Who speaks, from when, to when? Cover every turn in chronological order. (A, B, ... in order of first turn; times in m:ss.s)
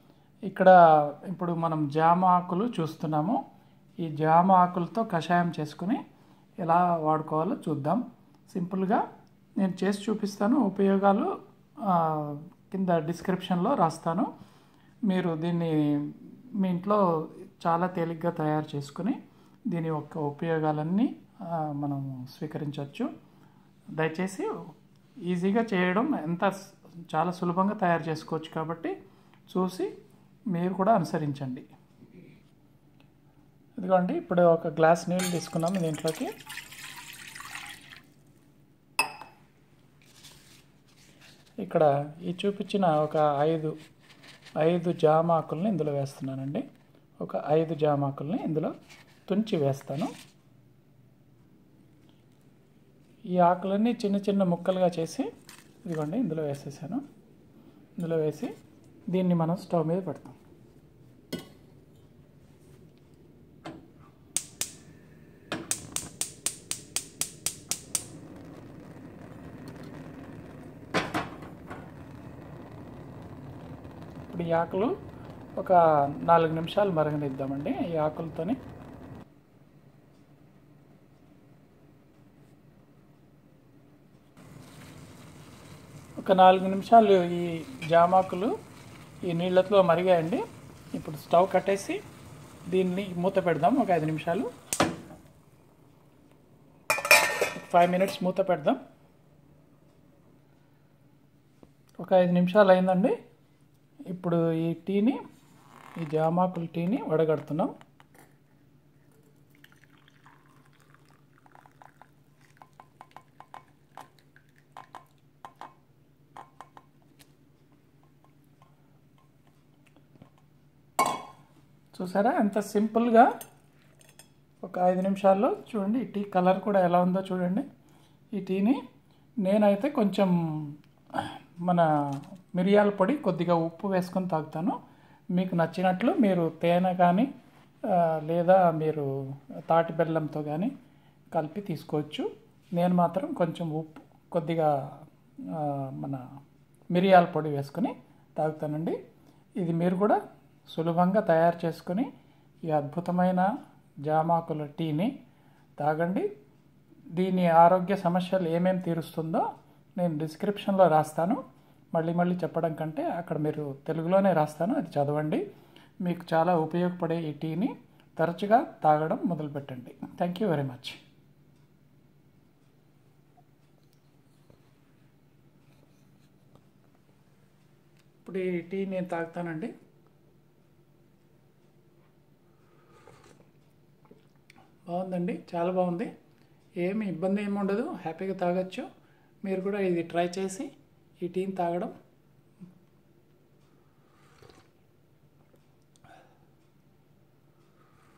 0:00.5-0:00.7 A
0:01.3-0:03.4 A
0:04.0-0:06.0 A
0:06.6-0:09.0 A
0:09.6-0:11.3 A
0:11.8-0:14.3 A
0:15.1-0:17.0 A
0:17.6-0:19.2 A
0:19.7-0:23.1 A
0:24.0-0:24.5 A
0:25.3-0:28.9 A
0:29.5-0:29.9 A
0:30.5-0:31.6 A
0:33.8-0:36.3 A
0:41.6-0:43.7 A
0:44.6-0:46.6 A
0:47.2-0:48.7 A
0:49.3-0:50.1 A
0:53.3-0:55.3 A
0:55.8-0:57.0 A
0:58.0-0:58.5 A
0:59.1-1:00.4 A
1:14.3-1:14.9 A
1:15.6-1:18.6 A
1:26.2-1:28.5 A
1:29.3-1:30.4 A
1:30.9-1:32.0 A
1:32.7-1:34.5 A
1:37.5-1:38.8 A
1:42.0-1:43.1 A
1:44.1-1:45.2 A
1:46.0-1:47.7 A
2:01.9-2:03.3 A
2:04.6-2:07.6 A
2:08.3-2:08.8 A
2:09.4-2:14.8 A
2:15.3-2:17.3 A
2:17.9-2:19.1 A
2:19.7-2:20.7 A
2:21.3-2:24.7 A
2:25.5-2:26.2 A
2:26.9-2:29.0 A
2:29.6-2:32.1 A
2:32.6-2:33.5 A
2:34.1-2:35.1 A
2:35.8-2:36.3 A
2:37.1-2:39.4 A
2:40.0-2:41.4 A
2:41.9-2:45.4 A
2:46.0-2:51.0 A
2:58.2-2:59.7 A
3:04.9-3:06.1 A
3:06.8-3:08.9 A
3:09.4-3:10.7 A
3:11.2-3:11.9 A